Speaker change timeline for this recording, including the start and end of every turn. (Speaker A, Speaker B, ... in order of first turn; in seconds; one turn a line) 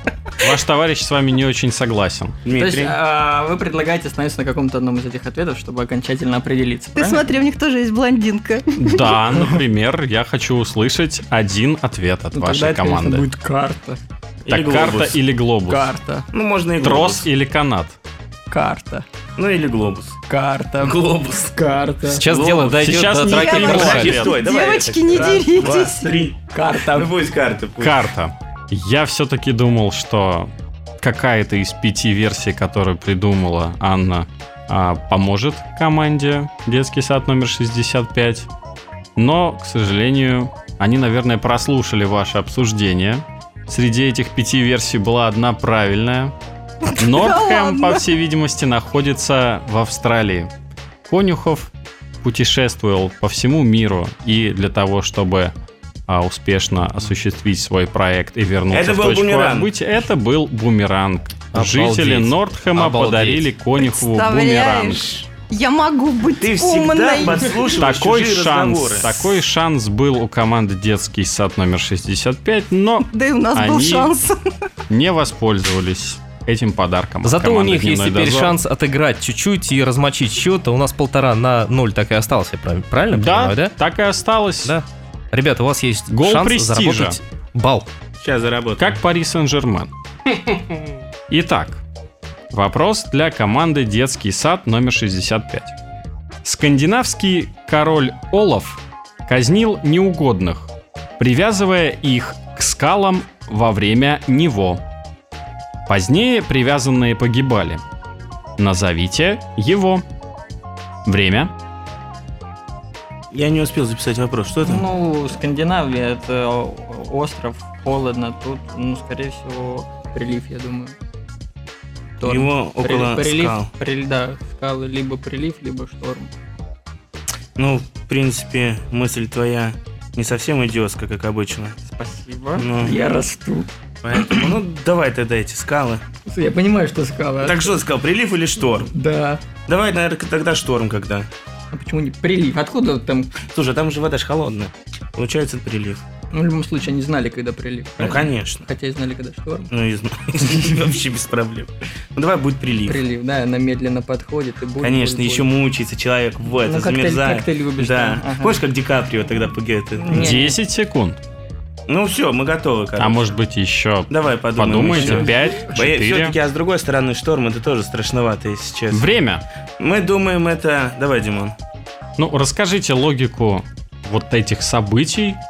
Speaker A: 0.4-2.4
Speaker B: 2.4-3.0
Speaker C: 2.5-7.2
Speaker D: 6.9-9.2
Speaker A: 8.8-13.3
Speaker C: 12.3-14.0
Speaker B: 14.4-15.2
Speaker A: 14.5-15.9
Speaker C: 15.7-16.3
Speaker B: 16.3-17.3
Speaker A: 16.8-18.0
Speaker C: 18.5-19.0
Speaker B: 19.4-20.2
Speaker C: 20.3-22.2
Speaker B: 20.8-21.5
Speaker E: 22.1-24.2
Speaker B: 22.2-28.0
Speaker A: 22.7-24.4
Speaker D: 23.2-26.1
Speaker C: 26.5-27.1
Speaker A: 27.8-38.5
Speaker A: 39.2-46.3
Speaker D: 46.8-48.1
Speaker A: 46.9-50.5
Speaker A: 51.1-51.7
Speaker A: 52.2-55.5
Speaker A: 56.1-65.1
Speaker B: 58.7-59.7
Speaker E: 61.5-63.5
Speaker D: 63.8-67.6
Speaker B: 66.4-69.2
Speaker A: 67.8-74.1
Speaker D: 73.0-74.3
Speaker A: 74.9-78.6
Speaker E: 77.2-83.7
Speaker A: 83.1-84.7
Speaker E: 84.6-87.9
Speaker A: 86.1-87.2
Speaker B: 88.2-88.9
Speaker A: 88.8-89.9
Speaker A: 91.3-91.8
Speaker A: 92.5-95.7
Speaker A: 96.4-104.8
Speaker A: 105.9-107.8
Speaker A: 108.6-110.0
Speaker A: 111.0-111.5
Speaker B: 113.3-114.9
Speaker C: 114.6-120.9
Speaker C: 122.2-126.3
Speaker B: 122.2-123.7
Speaker B: 127.6-131.8
Speaker C: 131.8-134.5
Speaker B: 132.6-133.0
Speaker B: 134.0-136.0
Speaker C: 136.3-137.8
Speaker B: 137.4-138.9
Speaker C: 138.8-139.4
Speaker B: 139.7-141.3
Speaker C: 141.7-143.3
Speaker B: 143.4-146.0
Speaker C: 146.3-149.7
Speaker B: 148.0-148.7
Speaker B: 149.7-153.0
Speaker C: 152.8-155.5
Speaker B: 154.8-160.3
Speaker C: 156.6-158.6
Speaker C: 159.9-160.6
Speaker A: 160.1-161.2
Speaker B: 161.9-163.3
Speaker A: 163.0-166.3
Speaker B: 164.1-169.1
Speaker C: 164.8-165.7
Speaker A: 168.9-169.4
Speaker B: 169.8-171.5
Speaker A: 172.2-175.4